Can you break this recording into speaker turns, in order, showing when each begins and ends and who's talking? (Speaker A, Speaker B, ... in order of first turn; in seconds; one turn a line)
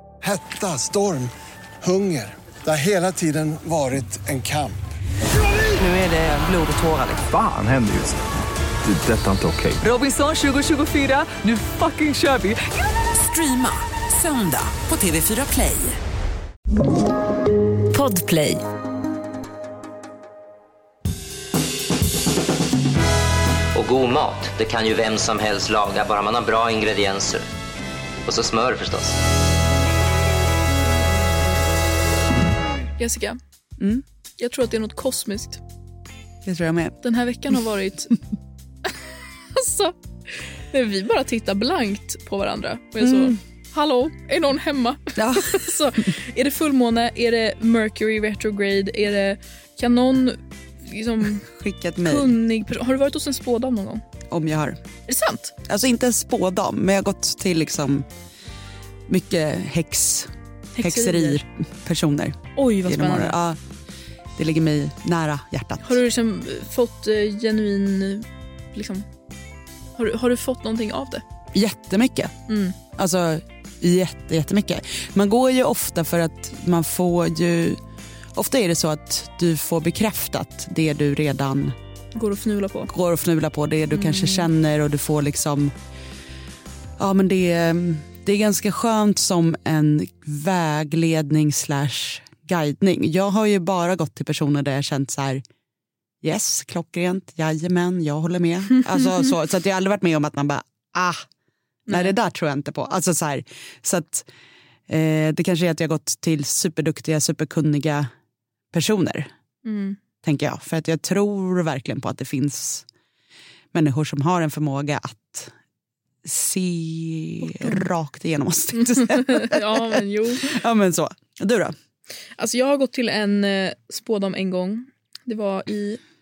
Speaker A: 0.2-4.8
Speaker B: 5.8-7.3
Speaker C: 7.2-8.2
Speaker C: 8.8-9.8
Speaker B: 9.8-16.0
Speaker B: 17.9-18.6
Speaker D: 23.7-27.4
Speaker D: 28.2-29.2
Speaker E: 33.0-33.4
Speaker F: 33.8-34.0
Speaker E: 34.4-35.6
Speaker F: 36.4-37.0
Speaker E: 37.0-38.1
Speaker E: 39.5-40.0
Speaker E: 40.7-51.5
Speaker F: 43.0-43.4
Speaker F: 45.2-45.6
Speaker F: 51.4-52.4
Speaker E: 52.0-54.0
Speaker F: 54.3-54.8
Speaker E: 55.1-55.5
Speaker F: 55.6-58.0
Speaker F: 59.1-60.3
Speaker E: 60.8-61.4
Speaker F: 60.8-63.6
Speaker E: 62.5-63.4
Speaker F: 64.4-66.0
Speaker E: 65.8-69.1
Speaker E: 70.0-71.2
Speaker F: 71.5-72.3
Speaker E: 72.5-72.8
Speaker F: 72.9-77.8
Speaker F: 78.3-81.7
Speaker E: 82.1-82.9
Speaker F: 82.9-85.7
Speaker E: 83.9-84.5
Speaker F: 87.0-95.4
Speaker F: 96.2-101.2
Speaker E: 101.9-102.1
Speaker F: 101.9-104.3
Speaker F: 104.9-108.1
Speaker F: 108.7-109.3
Speaker E: 109.6-110.0
Speaker F: 110.2-112.8
Speaker F: 113.7-115.5
Speaker F: 116.2-121.7
Speaker E: 117.6-117.8
Speaker E: 118.9-120.5
Speaker E: 122.4-126.0